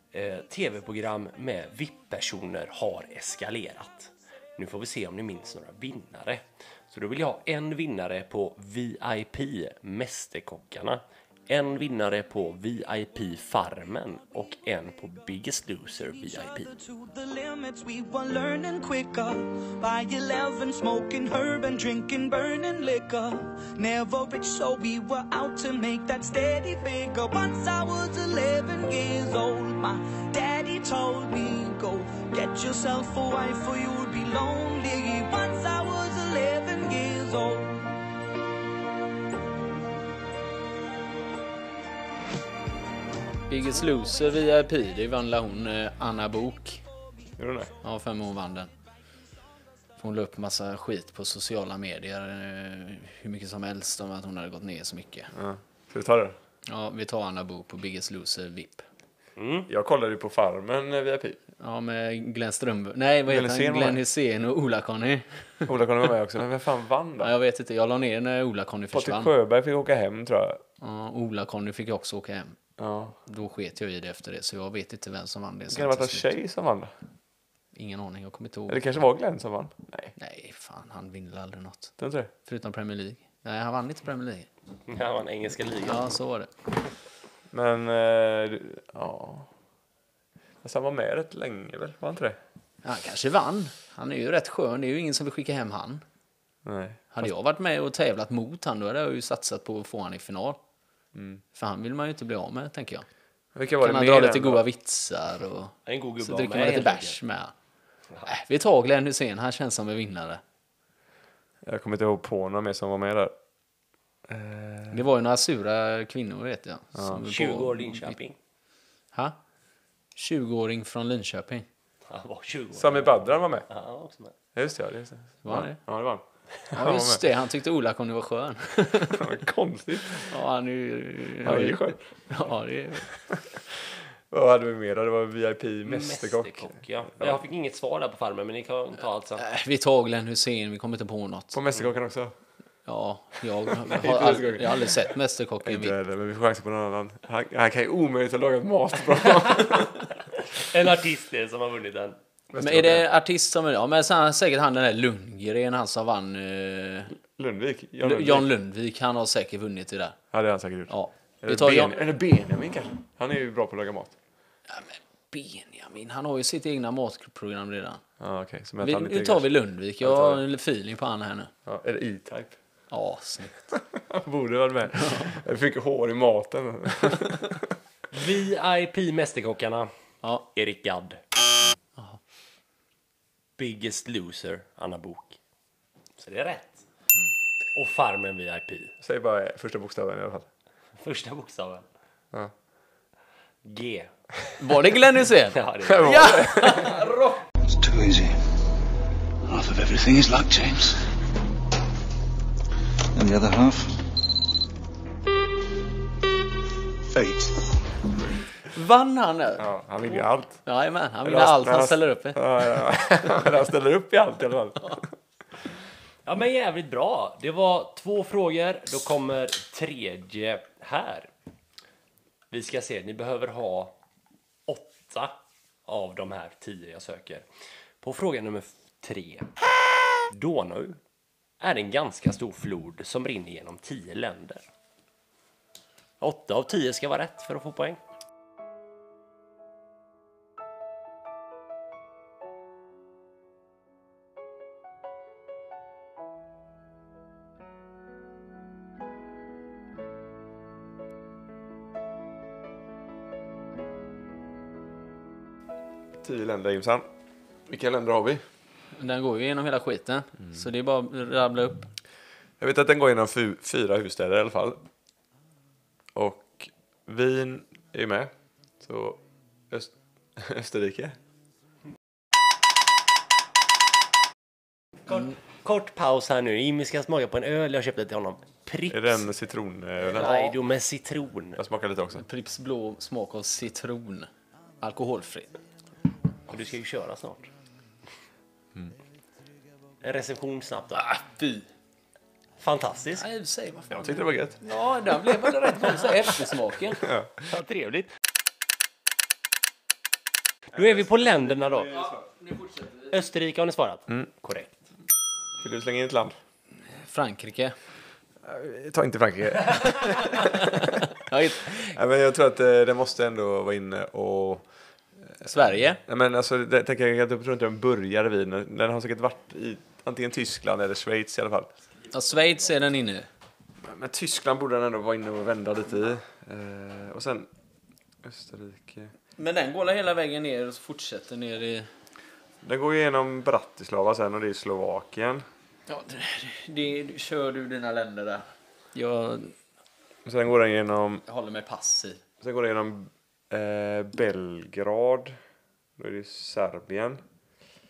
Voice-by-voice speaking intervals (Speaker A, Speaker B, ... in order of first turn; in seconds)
Speaker A: 0.1-16.7, 59.4-59.7, 84.9-86.1, 105.9-107.2, 117.2-118.4, 122.1-124.3, 135.8-139.4, 149.6-152.2, 178.1-179.9, 180.5-181.2, 183.6-185.4, 186.2-186.9, 187.8-188.9, 191.0-191.9, 193.7-194.1, 195.5-196.3, 216.2-221.3, 222.5-223.9, 224.7-227.4, 228.0-229.5, 230.3-231.0, 231.6-234.6, 236.2-238.0, 275.1-279.2, 280.1-281.6, 286.5-287.5, 290.0-291.1, 292.6-293.2, 297.5-298.1, 300.7-302.1, 303.1-304.8
Speaker B: 16.1-37.9
Speaker C: 43.5-46.8, 47.8-48.7, 50.0-55.3, 56.7-58.9, 61.6-65.7, 67.2-69.3, 70.8-72.6, 73.3-76.3, 77.8-78.9, 80.2-81.9, 82.5-84.5, 85.8-86.5, 92.8-96.0, 97.1-100.6, 101.5-103.1, 103.8-107.5, 108.3-110.4, 114.9-118.2, 120.2-121.7, 125.4-125.8, 126.7-129.3, 130.2-133.2, 139.4-141.6, 142.9-145.9, 152.6-157.1, 158.0-160.2, 160.9-162.0, 164.7-168.0, 168.8-171.5, 172.9-173.6, 175.0-175.3, 194.6-197.4, 208.7-209.7, 210.7-212.5, 259.0-261.9, 280.2-280.5, 282.2-284.3, 284.8-285.5, 291.1-291.7, 293.2-297.0, 302.1-303.1, 307.0-307.8, 310.3-312.0, 315.5-316.0, 322.1-323.3, 329.4-331.9, 335.9-339.6, 341.3-342.2
Speaker D: 47.4-47.7, 55.3-56.4, 59.7-61.4, 63.3-64.0, 65.7-67.3, 68.9-70.6, 72.8-73.2, 75.7-76.9, 78.7-80.1, 82.0-82.3, 87.5-89.5, 90.6-92.4, 96.7-97.3, 101.2-101.4, 103.5-104.6, 111.6-113.3, 114.3-115.0, 117.0-117.2, 122.8-123.7, 124.5-127.3, 129.1-130.3, 131.4-132.0, 134.3-137.4, 141.5-142.3, 143.7-145.0, 145.6-150.0, 152.5-153.1, 157.2-158.5, 160.3-164.2, 168.2-169.5, 170.0-170.4, 171.7-172.6, 173.9-177.7, 189.0-190.5, 195.9-197.0, 209.6-210.6, 211.2-215.1, 256.2-257.1, 257.7-258.4, 262.6-264.8, 266.1-271.2, 278.9-280.4, 281.6-282.2, 293.9-294.6, 297.0-297.4, 305.6-306.4, 308.4-311.1, 311.7-314.7, 316.1-321.7, 323.8-327.5, 328.2-329.1, 332.6-335.4, 340.2-341.2, 342.4-345.4, 346.0-347.2
Speaker E: 197.8-198.3, 199.5-200.9, 203.2-203.8, 207.1-207.5